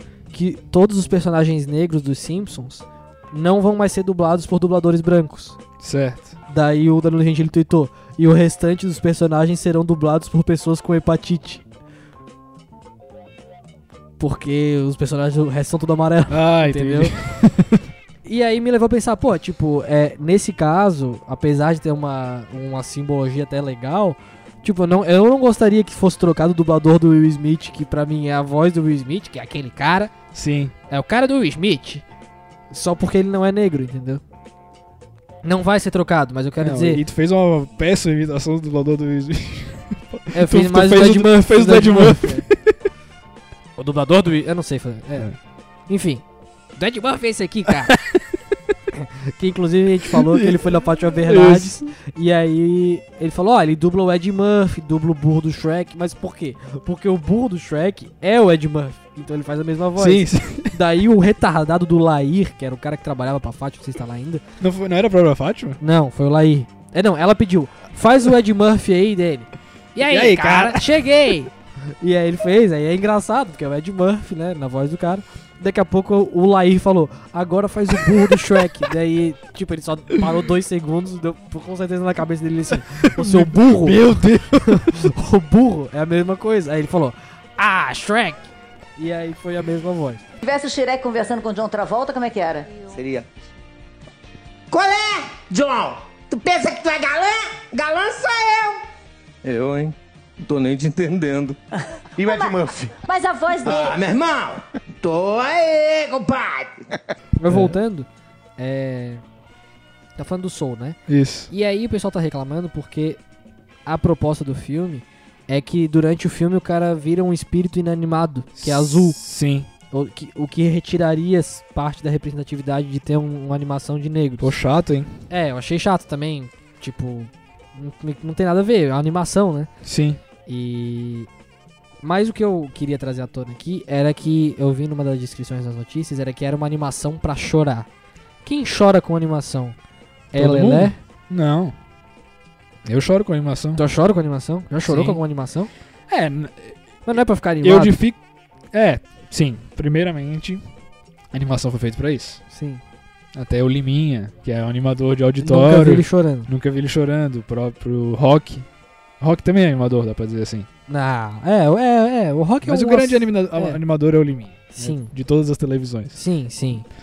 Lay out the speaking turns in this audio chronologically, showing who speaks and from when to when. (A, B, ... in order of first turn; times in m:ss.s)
0:00.3-0:05.6 A
0:05.8-0:06.3 B
0:06.5-0:11.6 A
0:14.2-0:17.1 A
0:16.3-0:17.8 B
0:18.2-0:30.1 A
0:30.3-0:30.7 B
0:30.9-0:32.0 A
0:32.7-0:34.2 A
0:35.4-0:37.0 A
0:36.6-0:42.8 B
0:40.3-0:42.5 A
0:43.8-0:45.3 A
0:45.9-0:46.2 A
0:46.8-0:47.9 A
0:47.7-0:48.2 B
0:48.9-1:04.4 A
0:50.0-0:51.9 B
1:00.0-1:00.8 B
1:04.6-1:05.8 B
1:05.8-1:24.0 A
1:10.0-1:11.0 B
1:23.0-1:25.1 B
1:24.6-1:30.2 A
1:30.4-1:33.0 C
1:32.9-1:33.3 D
1:34.7-1:38.8 E
1:39.4-1:41.6 D
1:42.2-1:44.0 C
1:42.2-1:42.8 E
1:42.4-1:42.8 D
1:43.6-1:46.8 E
1:47.4-1:49.2 A
1:47.5-1:47.8 B
1:50.2-1:51.0 A
1:51.1-1:51.5 B
1:51.5-1:53.2 A
1:53.9-1:59.2 A
1:58.6-1:59.7 B
1:59.9-2:04.5 A
2:04.4-2:05.2 B
2:05.3-2:09.7 A
2:09.8-2:10.2 B
2:10.5-2:11.3 A
2:12.0-2:17.9 A
2:18.4-2:19.8 A
2:20.3-2:21.0 A
2:20.3-2:21.8 B
2:22.8-2:23.8 B
2:23.8-2:25.7 A
2:24.8-2:25.2 B
2:26.1-2:28.2 B
2:27.1-2:28.0 A
2:28.7-2:30.6 B
2:31.3-2:32.4 B
2:32.5-2:32.8 A
2:33.3-2:38.7 B
2:35.4-2:36.5 A
2:39.2-2:40.7 B
2:40.9-2:43.8 A
2:42.6-2:46.2 B
2:44.7-2:45.1 A
2:46.1-2:46.9 A